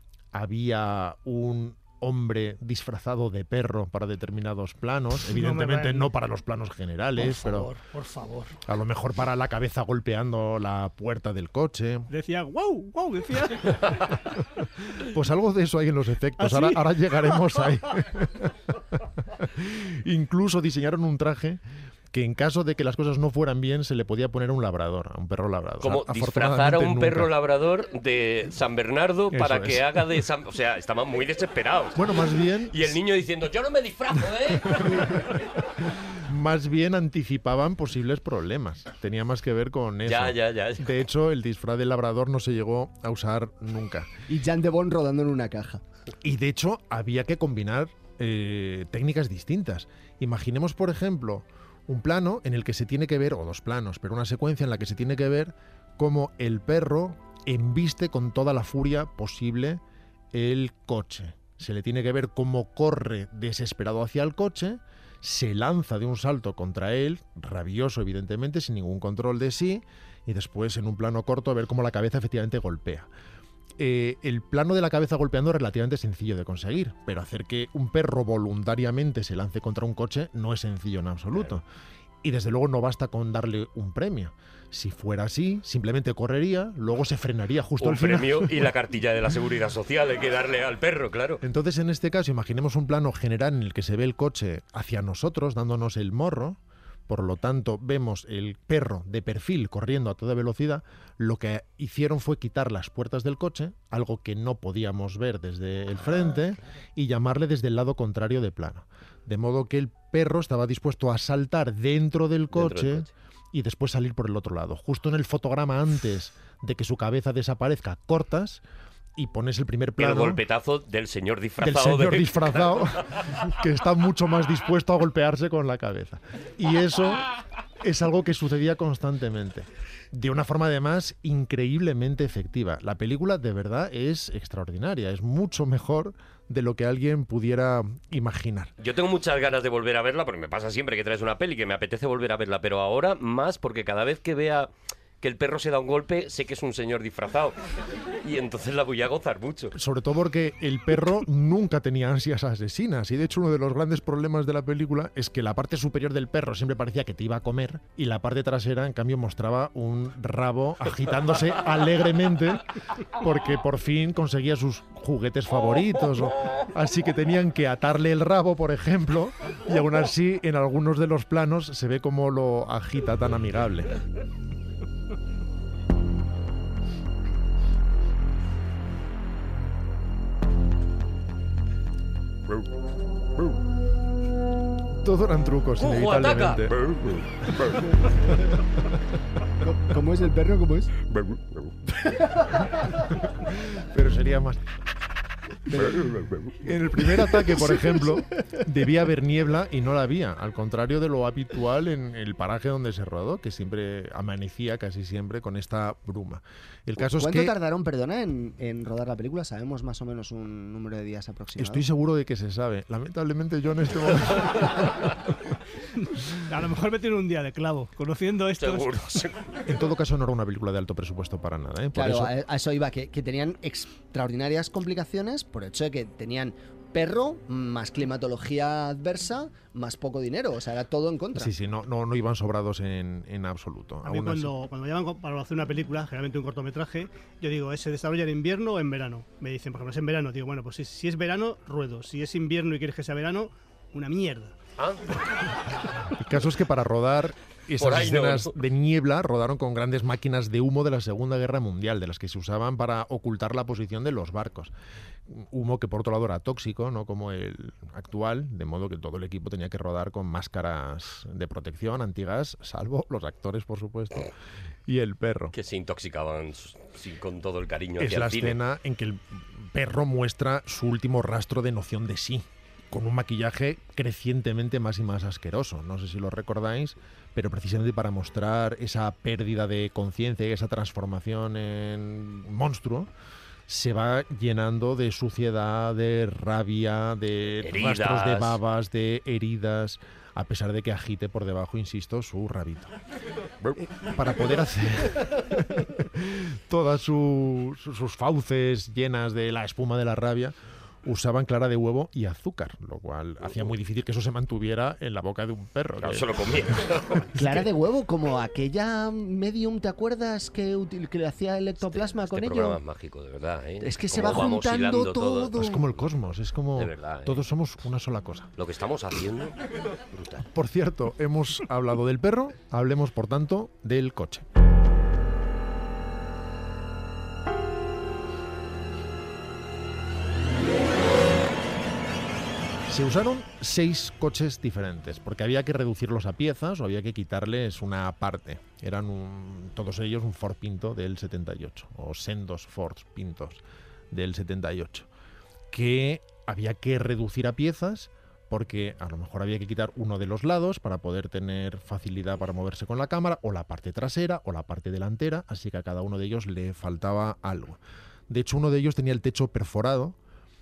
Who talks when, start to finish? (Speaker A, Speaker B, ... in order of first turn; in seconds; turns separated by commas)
Speaker A: 0.3-7.7, Speaker B: 5.3-6.1, Speaker B: 7.2-8.6, Speaker A: 8.7-12.1, Speaker B: 12.1-13.9, Speaker A: 14.9-18.6, Speaker B: 16.4-16.9, Speaker A: 19.3-21.6, Speaker A: 22.1-27.3, Speaker C: 25.8-32.2, Speaker A: 29.3-30.2, Speaker A: 31.9-33.0, Speaker C: 32.7-35.7, Speaker A: 36.1-44.1, Speaker C: 40.0-41.0, Speaker D: 44.3-45.8, Speaker A: 46.2-59.8, Speaker A: 60.3-73.1, Speaker A: 73.8-81.6, Speaker A: 82.2-88.7, Speaker C: 87.8-91.4, Speaker A: 91.4-118.6, Speaker C: 112.5-113.1, Speaker A: 119.2-120.4, Speaker C: 120.0-122.9, Speaker A: 121.6-127.3, Speaker A: 127.8-138.7, Speaker C: 138.8-144.7, Speaker C: 145.2-147.6, Speaker C: 148.2-149.7, Speaker A: 149.7-173.9, Speaker A: 185.0-186.8, Speaker C: 185.8-187.8, Speaker A: 187.4-187.8, Speaker D: 187.8-188.4, Speaker D: 189.6-190.9, Speaker C: 191.1-191.6, Speaker D: 191.9-193.0, Speaker A: 193.3-194.6, Speaker D: 195.7-196.1, Speaker A: 195.8-207.5, Speaker D: 197.0-198.6, Speaker D: 207.0-211.8, Speaker A: 211.6-215.2, Speaker B: 216.3-219.2, Speaker C: 218.6-219.6, Speaker A: 219.7-222.3, Speaker D: 221.9-231.5, Speaker A: 231.3-234.5, Speaker B: 234.0-244.5, Speaker C: 244.8-245.0, Speaker A: 246.1-254.7, Speaker C: 247.8-248.5, Speaker A: 255.3-264.3, Speaker A: 264.9-265.5, Speaker C: 265.5-268.6, Speaker A: 268.0-283.1, Speaker A: 283.7-292.9, Speaker C: 287.6-288.6, Speaker A: 293.8-307.6, Speaker C: 306.0-307.3, Speaker D: 307.4-312.8, Speaker C: 311.8-315.5, Speaker D: 313.8-315.8, Speaker A: 315.5-318.5, Speaker C: 316.8-317.4, Speaker C: 318.6-319.5, Speaker C: 320.1-320.4, Speaker A: 320.5-324.4, Speaker A: 332.9-345.1, Speaker A: 345.7-360.1